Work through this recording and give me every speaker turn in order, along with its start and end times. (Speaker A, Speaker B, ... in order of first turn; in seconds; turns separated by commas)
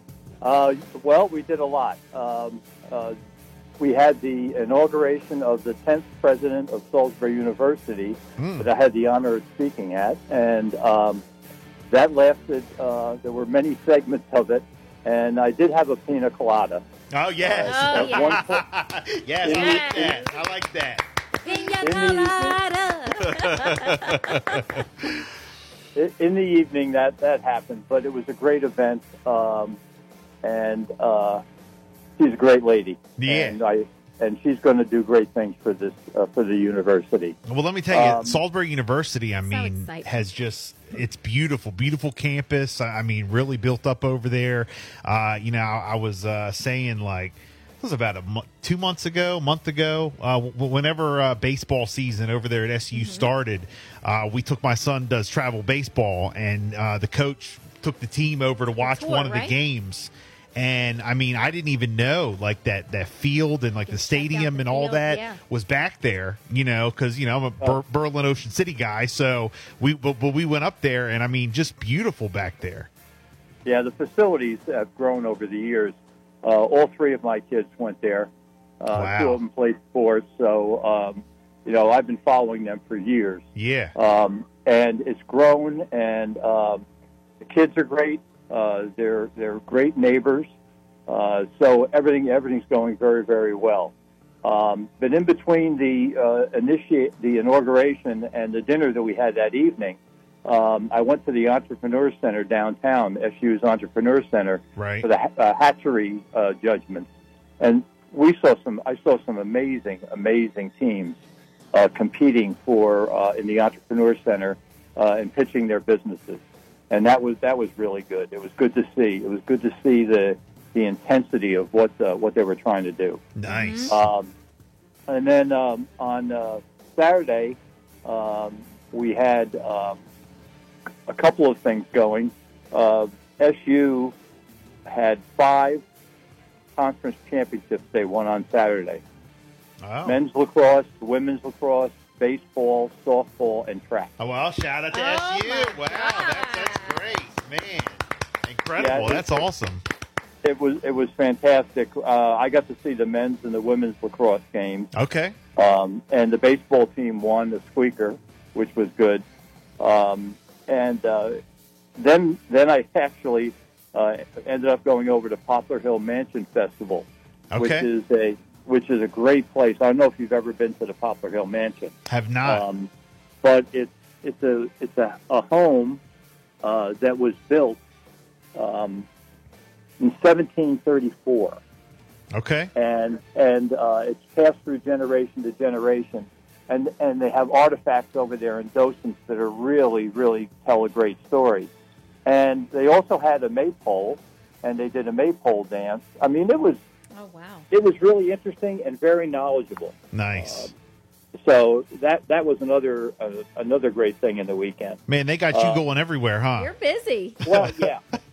Speaker A: 0.4-3.2, Speaker A: 3.8-11.2, Speaker B: 8.4-8.7, Speaker A: 11.9-16.8, Speaker B: 17.1-21.0, Speaker A: 17.4-18.6, Speaker C: 17.6-18.4, Speaker A: 19.4-20.2, Speaker C: 19.5-20.4, Speaker C: 21.4-24.6, Speaker A: 21.8-22.6, Speaker B: 23.3-25.2, Speaker A: 25.9-29.8, Speaker A: 30.4-31.4, Speaker A: 32.2-37.4, Speaker B: 33.2-33.6, Speaker B: 37.5-72.9, Speaker A: 37.9-38.4, Speaker C: 39.4-40.1, Speaker C: 52.9-53.3, Speaker C: 58.8-59.5, Speaker C: 63.9-65.4, Speaker A: 73.7-83.4, Speaker B: 78.9-79.4, Speaker B: 83.6-83.9, Speaker A: 84.0-86.8, Speaker A: 87.4-90.5, Speaker A: 91.1-93.9, Speaker A: 94.4-107.1, Speaker B: 104.8-105.1, Speaker A: 107.6-111.2, Speaker A: 111.7-123.2, Speaker B: 123.4-124.0, Speaker C: 123.5-123.9, Speaker A: 123.9-124.3, Speaker A: 125.1-130.0, Speaker A: 131.1-134.2, Speaker A: 134.9-135.8, Speaker A: 136.8-139.0, Speaker B: 139.8-140.2, Speaker A: 140.1-144.1, Speaker B: 144.2-149.8, Speaker C: 144.9-147.0, Speaker A: 148.8-149.5, Speaker A: 150.4-154.9, Speaker B: 154.9-155.3, Speaker A: 155.6-159.2, Speaker A: 159.8-161.4, Speaker A: 162.0-171.9, Speaker B: 167.5-167.9, Speaker B: 172.1-172.6, Speaker A: 172.4-172.9, Speaker A: 173.4-176.0, Speaker A: 176.6-177.8, Speaker A: 178.6-179.1, Speaker A: 180.0-181.6, Speaker B: 182.3-182.7, Speaker A: 182.8-191.7, Speaker A: 192.2-196.8, Speaker C: 197.2-197.7, Speaker A: 197.7-200.7, Speaker B: 200.1-200.7, Speaker A: 201.4-205.0, Speaker B: 205.1-206.7, Speaker A: 205.5-205.8, Speaker C: 206.6-207.4, Speaker A: 207.4-208.0